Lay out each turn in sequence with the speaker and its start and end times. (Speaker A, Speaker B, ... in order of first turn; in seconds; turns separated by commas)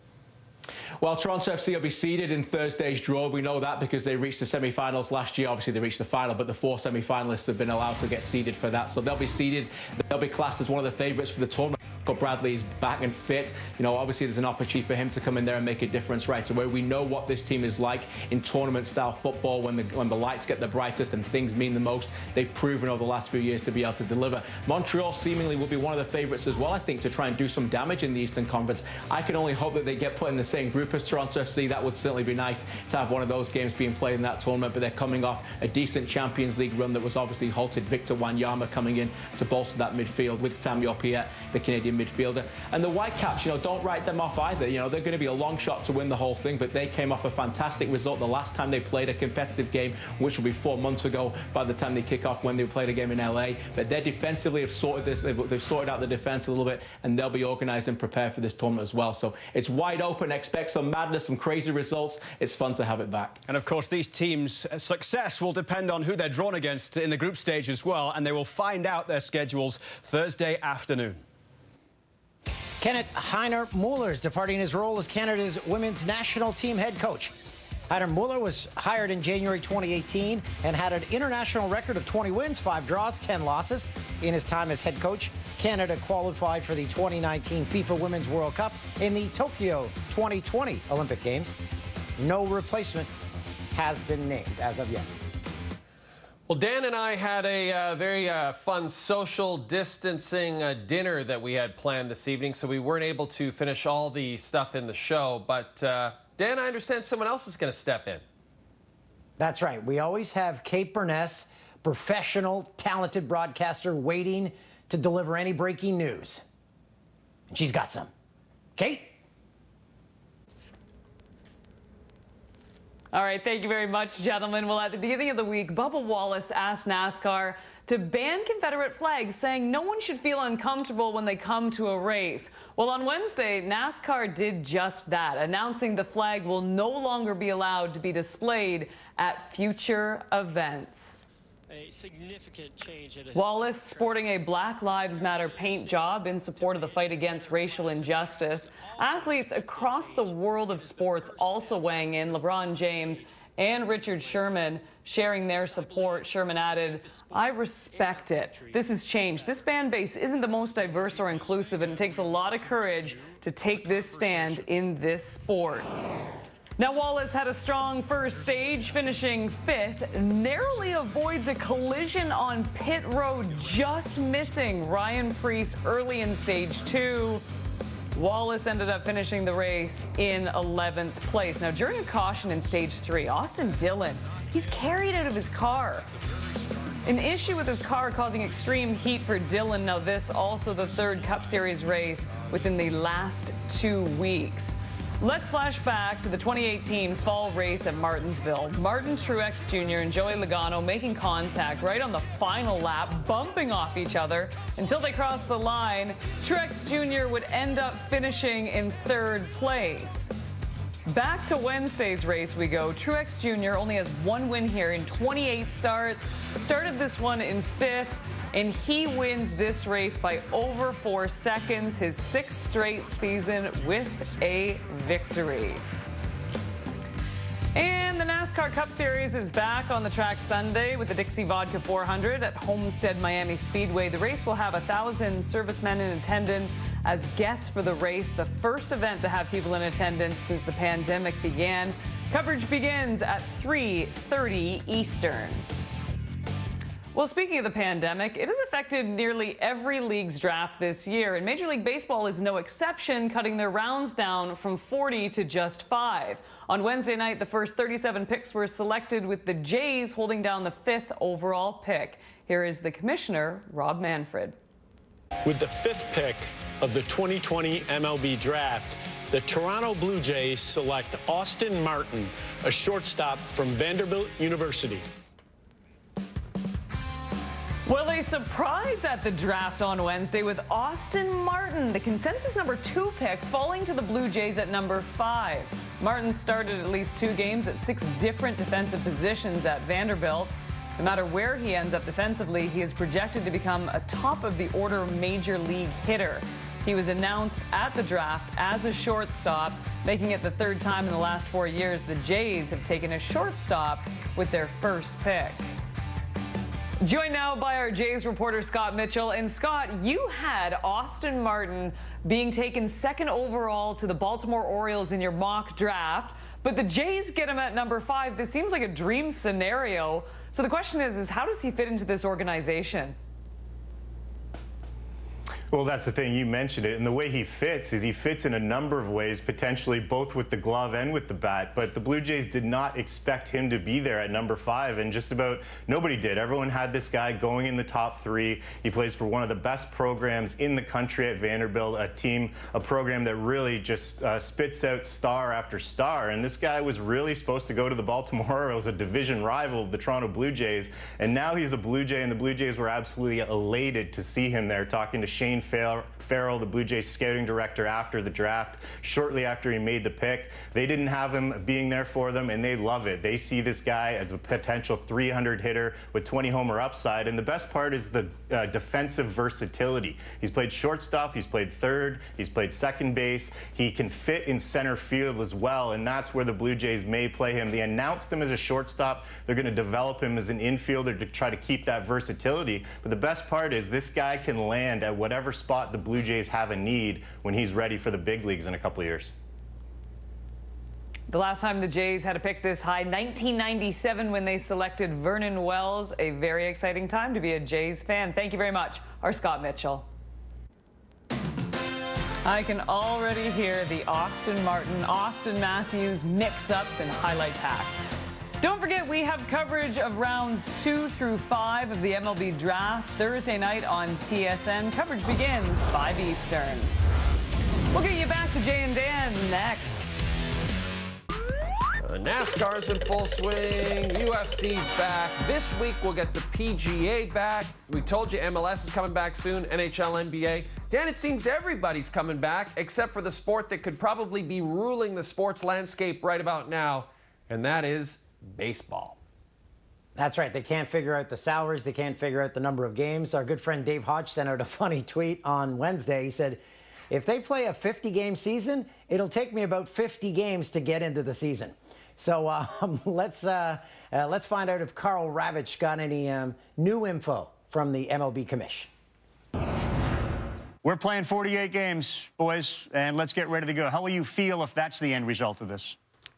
Speaker A: 1.0-63.4, Speaker B: 63.5-71.2, Speaker C: 72.8-77.3, Speaker C: 77.9-91.5, Speaker C: 92.2-93.1, Speaker C: 93.7-95.1, Speaker D: 96.5-108.2, Speaker C: 109.4-116.4, Speaker C: 117.5-118.1, Speaker C: 118.8-119.1, Speaker E: 123.1-141.2, Speaker F: 141.7-144.2, Speaker E: 143.3-165.9, Speaker F: 145.0-153.1, Speaker F: 153.7-154.7, Speaker F: 155.4-158.8, Speaker F: 159.3-159.7, Speaker F: 160.8-164.7, Speaker E: 166.8-177.4, Speaker E: 178.1-186.1, Speaker E: 187.0-210.3, Speaker E: 211.1-225.8, Speaker E: 227.7-245.6, Speaker E: 247.1-264.6, Speaker G: 265.4-275.1, Speaker E: 277.9-305.6, Speaker E: 307.0-323.1, Speaker H: 325.7-389.3, Speaker E: 391.3-400.1, Speaker E: 402.4-408.0, Speaker E: 408.6-416.9, Speaker E: 417.9-420.1, Speaker D: 422.0-439.2, Speaker C: 440.1-458.9, Speaker I: 460.8-465.9